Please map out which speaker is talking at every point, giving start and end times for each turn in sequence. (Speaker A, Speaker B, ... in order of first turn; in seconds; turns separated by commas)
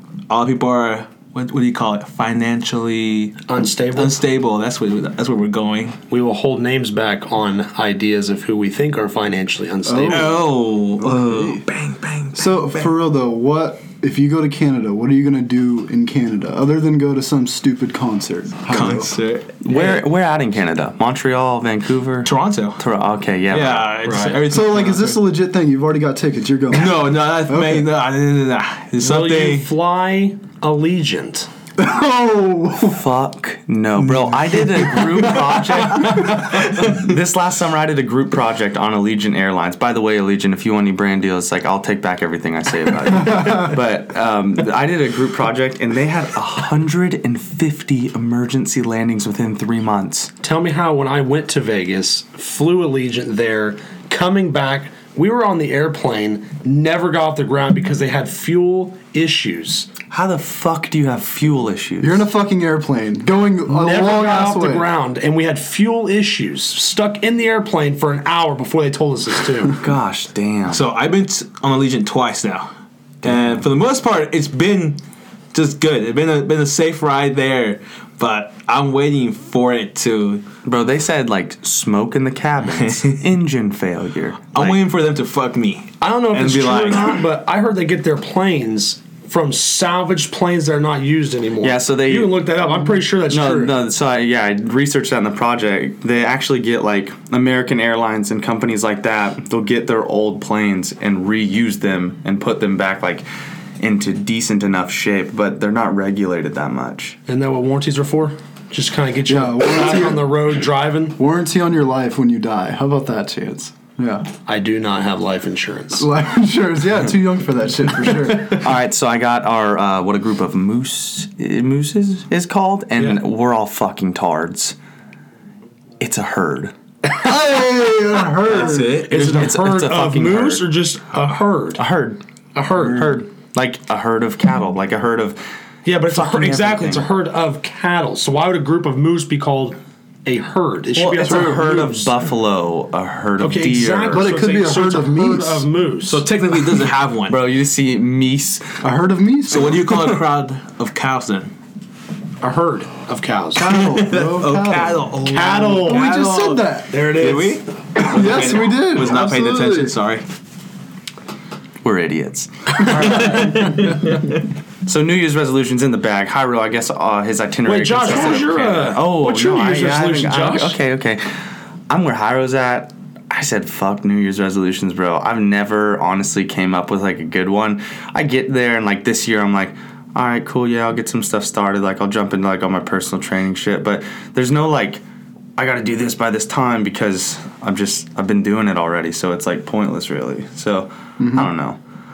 Speaker A: 0.3-6.0, Speaker B: 3.5-4.2, Speaker B: 6.1-10.4, Speaker C: 9.9-10.4, Speaker A: 10.1-12.9, Speaker C: 11.0-11.6, Speaker C: 12.3-19.1, Speaker A: 18.7-20.0, Speaker D: 19.6-23.9, Speaker A: 22.2-22.8, Speaker A: 23.5-25.2, Speaker B: 24.0-24.4, Speaker C: 24.5-27.9, Speaker A: 26.7-29.7, Speaker B: 29.0-31.5, Speaker C: 31.8-33.0, Speaker D: 32.8-50.3, Speaker A: 34.2-35.2, Speaker A: 35.9-37.0, Speaker B: 50.4-59.9, Speaker D: 60.1-62.2, Speaker C: 62.0-64.9, Speaker B: 63.7-69.8, Speaker D: 69.8-70.8, Speaker A: 70.7-72.7, Speaker A: 73.2-75.0, Speaker A: 75.5-80.4, Speaker D: 80.7-84.8, Speaker A: 82.8-83.2, Speaker A: 84.5-87.2, Speaker B: 86.0-93.8, Speaker D: 91.6-92.4, Speaker D: 93.3-103.2, Speaker D: 103.8-107.2, Speaker B: 107.3-111.2, Speaker C: 109.3-110.3, Speaker C: 111.2-114.3, Speaker B: 114.5-116.1, Speaker C: 116.0-118.7, Speaker D: 118.4-124.8, Speaker D: 126.0-126.7, Speaker C: 127.2-129.1, Speaker A: 128.4-129.6, Speaker B: 129.1-131.8, Speaker D: 129.3-130.7, Speaker D: 131.8-132.2, Speaker B: 132.6-133.1, Speaker D: 132.7-135.4, Speaker B: 135.8-142.2, Speaker D: 136.1-137.1, Speaker D: 140.9-144.3, Speaker C: 141.3-141.6, Speaker B: 143.4-146.2, Speaker C: 144.1-145.7, Speaker A: 146.1-147.4, Speaker D: 147.3-148.8, Speaker C: 148.8-149.8, Speaker A: 149.5-151.5, Speaker B: 152.4-153.8, Speaker C: 153.5-155.1, Speaker A: 153.7-160.2, Speaker B: 155.2-156.1, Speaker C: 155.8-156.9, Speaker B: 156.9-157.6, Speaker C: 158.0-159.9, Speaker D: 161.8-164.0, Speaker A: 163.1-164.3, Speaker B: 163.1-163.4, Speaker D: 164.9-171.2, Speaker B: 167.7-170.8, Speaker D: 171.9-185.0, Speaker D: 185.6-191.8, Speaker C: 191.2-191.5